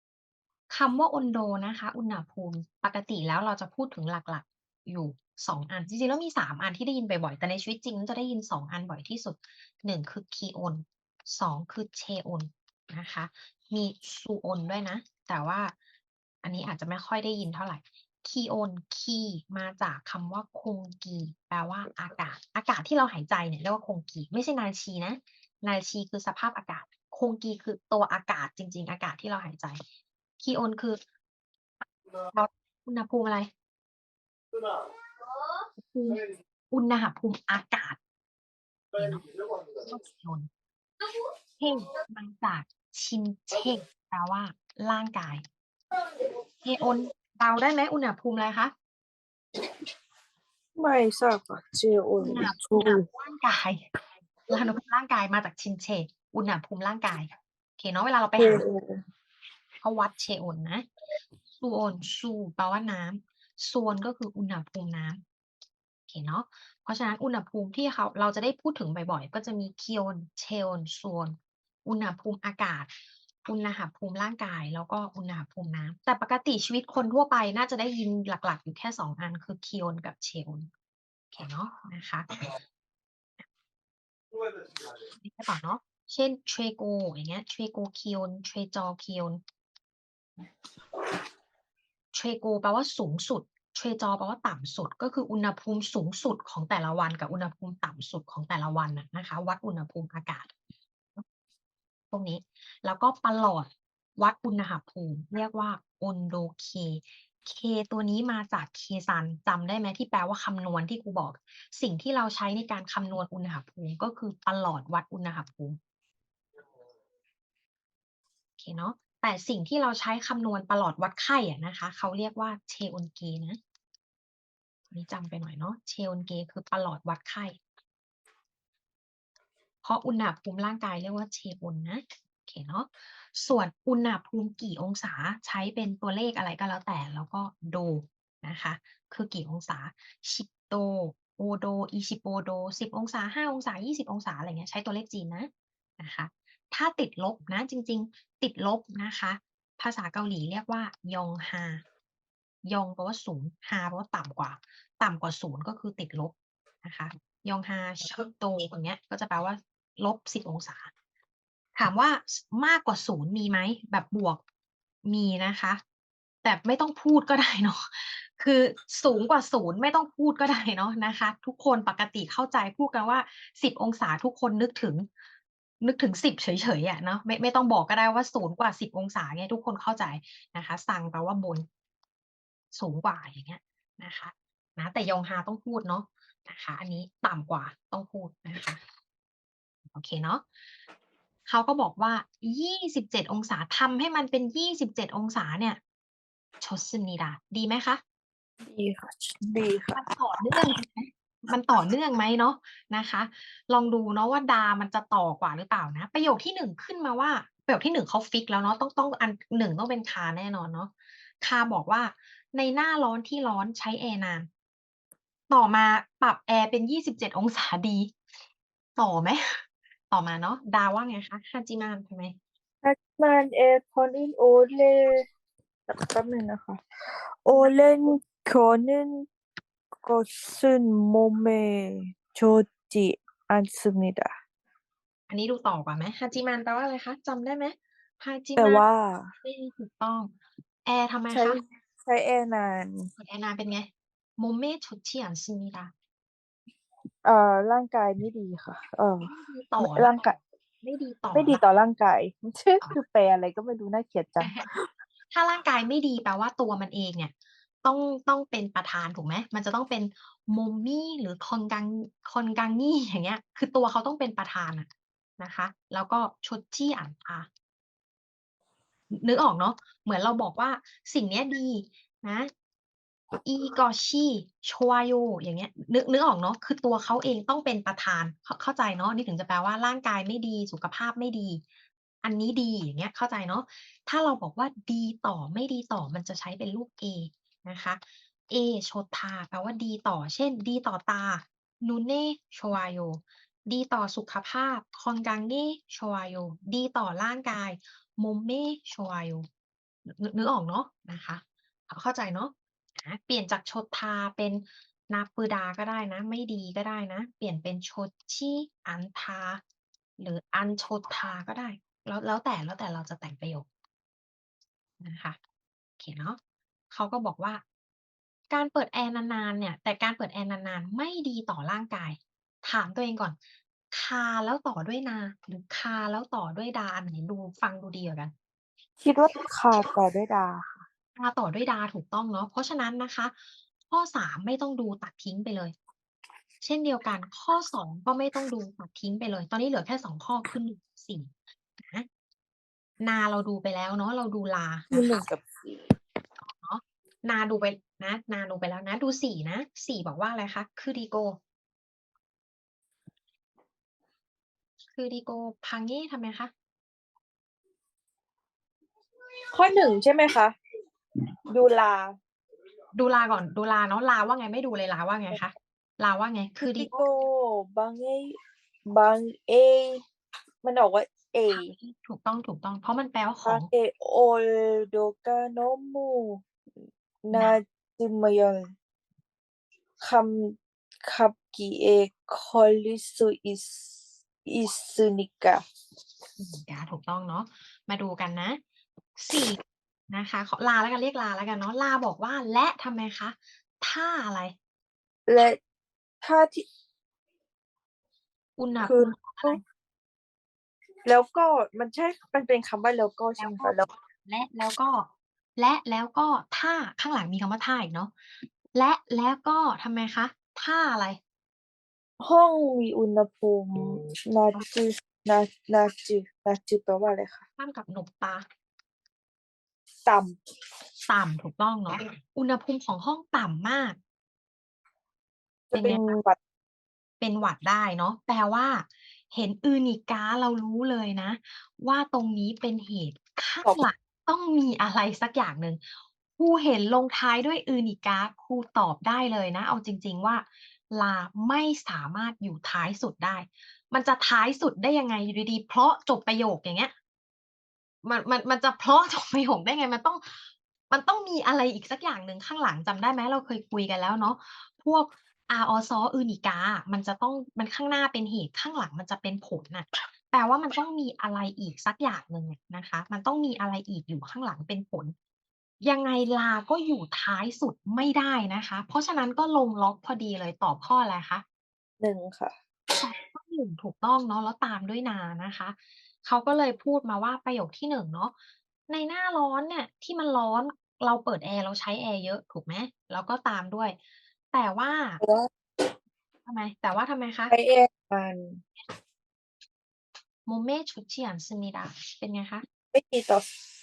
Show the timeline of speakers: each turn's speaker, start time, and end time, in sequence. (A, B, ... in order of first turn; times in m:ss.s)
0:00.7-0:15.7 A
0:16.4-0:29.8 A
0:30.4-0:31.0 A
0:32.3-0:33.5 A
0:35.8-0:38.0 A
0:39.0-0:39.3 A
0:39.8-0:40.5 A
0:41.6-0:45.4 A
0:46.6-0:48.7 A
0:50.8-0:53.1 B
0:52.2-0:53.9 A
0:54.5-0:58.6 A
0:58.4-0:59.0 B
0:59.8-1:00.9 A
1:01.6-1:05.2 A
1:06.1-1:12.9 A
1:13.4-1:20.7 A
1:21.3-1:22.4 A
1:25.2-1:29.4 A
1:32.1-1:40.5 A
1:42.1-1:55.8 A
1:58.6-2:03.6 A
2:04.9-2:07.6 A
2:09.8-2:31.8 A
2:32.6-2:40.9 A
2:41.8-2:44.4 A
2:45.1-2:45.8 A
2:46.4-2:55.1 A
2:55.8-3:01.7 A
3:02.7-3:08.8 A
3:09.9-3:10.4 A
3:11.5-3:15.8 A
3:16.6-3:18.0 A
3:18.6-3:20.0 B
3:20.0-3:34.5 A
3:35.5-3:38.1 A
3:39.0-3:42.4 A
3:42.8-3:45.2 B
3:45.9-3:46.8 B
3:47.4-3:49.3 B
3:50.0-3:54.3 B
3:55.3-3:58.8 A
3:58.6-3:59.3 B
3:59.4-4:00.3 A
4:00.8-4:01.6 A
4:01.3-4:03.1 B
4:03.2-4:05.9 A
4:07.2-4:10.4 B
4:09.2-4:10.3 A
4:10.8-4:11.6 A
4:11.3-4:14.8 B
4:14.4-4:14.7 A
4:15.3-4:17.3 A
4:17.8-4:27.5 A
4:29.2-4:32.5 A
4:33.4-4:41.6 A
4:42.2-4:48.0 A
4:48.5-4:59.5 A
5:00.1-5:09.6 A
5:10.2-5:13.7 A
5:15.0-5:15.4 A
5:16.0-5:16.4 A
5:16.9-5:17.6 A
5:18.5-5:23.4 A
5:23.9-5:28.3 A
5:29.0-5:30.8 B
5:31.2-5:33.4 A
5:33.9-5:35.7 A
5:36.6-5:42.1 A
5:43.0-5:45.2 A
5:44.9-5:45.9 B
5:46.4-5:51.4 A
5:55.0-5:56.5 A
5:59.5-6:00.6 B
6:01.5-6:02.2 B
6:03.0-6:07.0 A
6:06.6-6:10.0 B
6:10.6-6:11.7 B
6:11.5-6:13.7 A
6:13.4-6:16.5 B
6:17.2-6:18.7 B
6:17.3-6:17.6 A
6:20.0-6:23.9 B
6:24.4-6:25.6 B
6:26.4-6:28.6 A
6:29.2-6:34.6 A
6:35.3-6:35.6 B
6:36.2-6:36.7 B
6:38.6-6:39.6 A
6:38.8-6:39.6 B
6:41.0-6:43.9 B
6:43.4-6:48.1 A
6:48.8-6:51.2 A
6:52.2-6:57.4 B
6:57.6-6:58.4 A
7:00.0-7:00.4 B
7:01.1-7:04.0 A
7:05.7-7:06.4 B
7:05.7-7:06.2 A
7:07.2-7:15.8 A
7:16.4-7:26.9 A
7:28.0-7:45.1 A
7:45.8-7:51.4 A
7:52.0-7:52.6 B
7:52.9-7:58.4 A
7:58.9-8:04.0 A
8:04.5-8:05.2 A
8:05.2-8:05.5 B
8:06.4-8:07.5 A
8:07.5-8:08.6 B
8:10.5-8:12.6 A
8:12.9-8:13.4 B